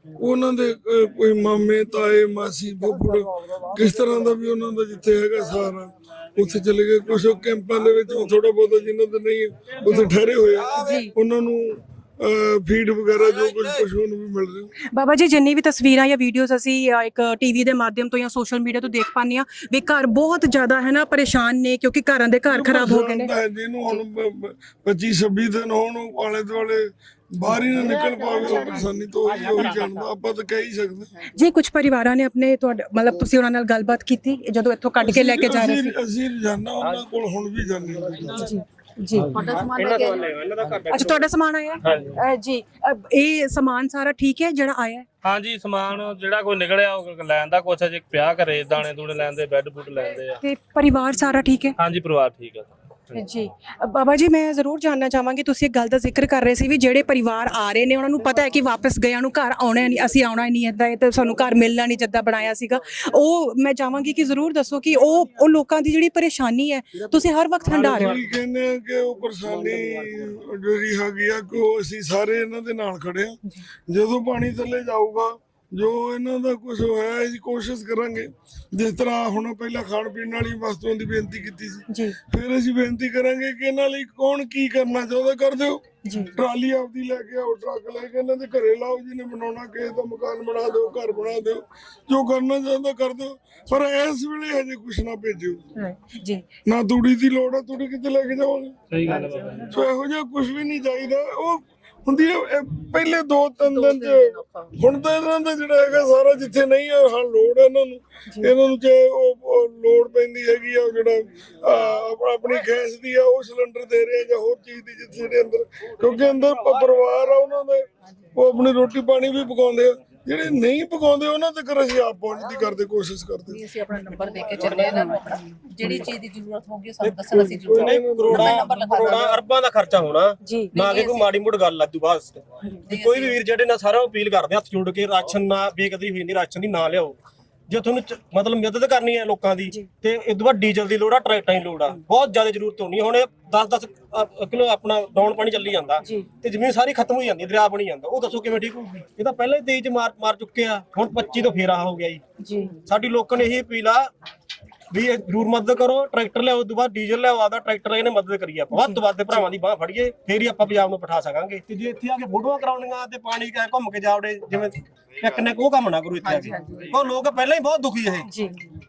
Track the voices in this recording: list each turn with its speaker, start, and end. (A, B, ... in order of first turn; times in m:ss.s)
0:00.2-0:14.7 A
0:10.8-0:11.1 B
0:14.9-0:23.3 B
0:22.5-0:31.1 A
0:29.3-0:29.7 C
0:31.3-0:35.9 B
0:35.0-0:38.5 A
0:38.3-0:39.3 B
0:39.2-0:41.3 C
0:39.3-0:40.4 D
0:40.9-0:45.0 B
0:41.8-0:42.2 C
0:45.2-0:50.4 E
0:50.4-0:51.8 B
0:51.8-0:53.2 E
0:53.1-1:08.1 B
1:07.7-1:13.4 A
1:07.7-1:08.2 C
1:13.9-1:35.6 A
1:21.9-1:22.2 B
1:26.0-1:26.3 B
1:35.8-1:36.4 B
1:36.6-1:38.8 A
1:38.9-1:39.7 E
1:39.1-1:39.7 D
1:39.7-2:03.6 A
1:43.6-1:44.8 D
2:03.5-2:09.4 D
2:04.6-2:04.9 C
2:07.0-2:17.2 C
2:07.3-2:09.2 A
2:10.4-2:10.7 B
2:10.7-2:11.3 D
2:12.8-2:13.4 D
2:17.7-2:32.2 C
2:32.4-2:32.7 B
2:32.8-2:34.1 C
2:34.9-2:48.3 C
2:38.7-2:39.4 B
2:46.2-2:46.9 D
2:48.3-2:48.7 B